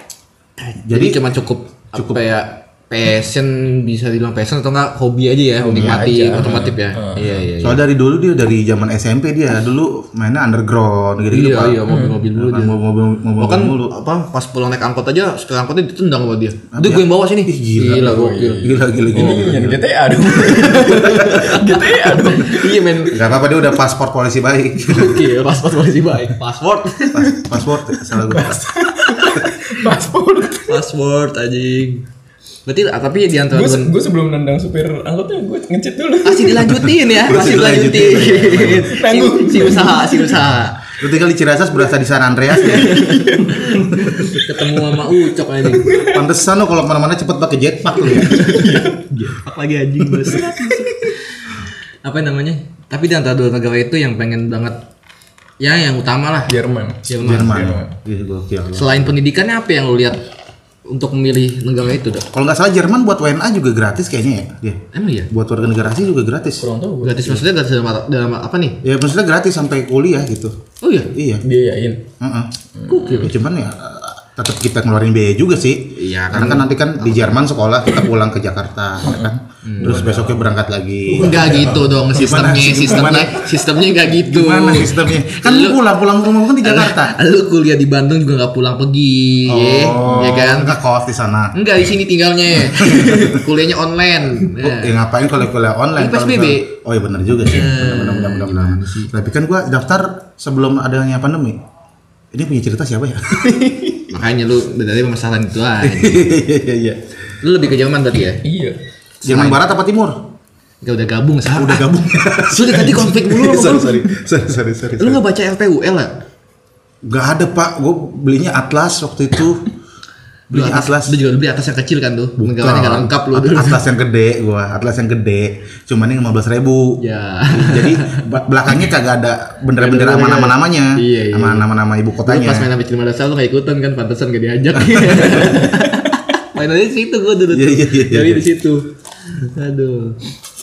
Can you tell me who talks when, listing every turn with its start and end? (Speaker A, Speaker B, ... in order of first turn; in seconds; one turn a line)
Speaker A: 0.6-7.8
Speaker B: 0.8-1.2
Speaker B: 1.9-2.2
Speaker C: 5.6-7.3
Speaker B: 5.7-6.0
Speaker B: 7.2-13.9
Speaker A: 11.3-12.8
Speaker C: 11.9-12.2
Speaker A: 13.4-19.4
Speaker B: 16.7-19.9
Speaker C: 17.8-22.9
Speaker A: 20.6-23.2
Speaker B: 20.9-21.5
Speaker B: 23.1-25.3
Speaker A: 24.8-27.4
Speaker B: 27.1-28.7
Speaker C: 28.1-30.8
Speaker A: 29.1-29.5
Speaker A: 30.7-32.0
Speaker A: 32.7-33.9
Speaker C: 33.5-36.9
Speaker A: 36.2-40.9
Speaker B: 37.1-38.9
Speaker C: 38.6-40.4
Speaker B: 40.9-43.2
Speaker A: 42.6-46.1
Speaker C: 42.6-45.0
Speaker C: 45.7-46.2
Speaker B: 46.0-48.6
Speaker C: 48.1-49.3
Speaker A: 48.1-54.8
Speaker C: 50.0-51.1
Speaker A: 55.6-56.5
Speaker C: 56.5-57.9
Speaker A: 57.1-57.8
Speaker B: 57.2-59.1
Speaker A: 58.7-60.2
Speaker A: 60.9-62.3
Speaker B: 62.3-66.7
Speaker A: 64.9-65.3
Speaker C: 66.6-67.4
Speaker A: 67.0-68.8
Speaker B: 68.8-70.5
Speaker A: 70.8-71.1
Speaker B: 71.1-71.4
Speaker C: 71.4-72.1
Speaker B: 72.2-72.5
Speaker C: 72.8-73.3
Speaker A: 72.9-73.3
Speaker B: 73.1-83.6
Speaker A: 75.9-77.3
Speaker C: 79.1-79.3
Speaker A: 79.6-80.1
Speaker C: 79.8-80.3
Speaker C: 81.1-81.8
Speaker A: 81.2-85.8
Speaker B: 84.2-87.2
Speaker A: 86.6-90.8
Speaker B: 89.5-91.5
Speaker A: 91.5-95.0
Speaker B: 92.6-93.5
Speaker B: 94.5-101.6
Speaker A: 96.0-96.7
Speaker A: 97.4-99.1
Speaker B: 102.3-103.6
Speaker C: 103.5-103.9
Speaker A: 104.1-106.3
Speaker B: 105.8-107.0
Speaker A: 107.4-108.4
Speaker C: 108.4-108.8
Speaker A: 109.2-109.6
Speaker B: 109.2-110.3
Speaker A: 110.8-114.0
Speaker B: 111.5-115.2
Speaker A: 115.0-116.1
Speaker B: 117.0-119.7
Speaker B: 120.5-121.2
Speaker A: 120.5-123.8
Speaker B: 122.4-132.7
Speaker A: 127.0-128.2
Speaker A: 129.8-131.7
Speaker A: 132.2-140.2
Speaker B: 134.8-135.1
Speaker B: 137.5-138.5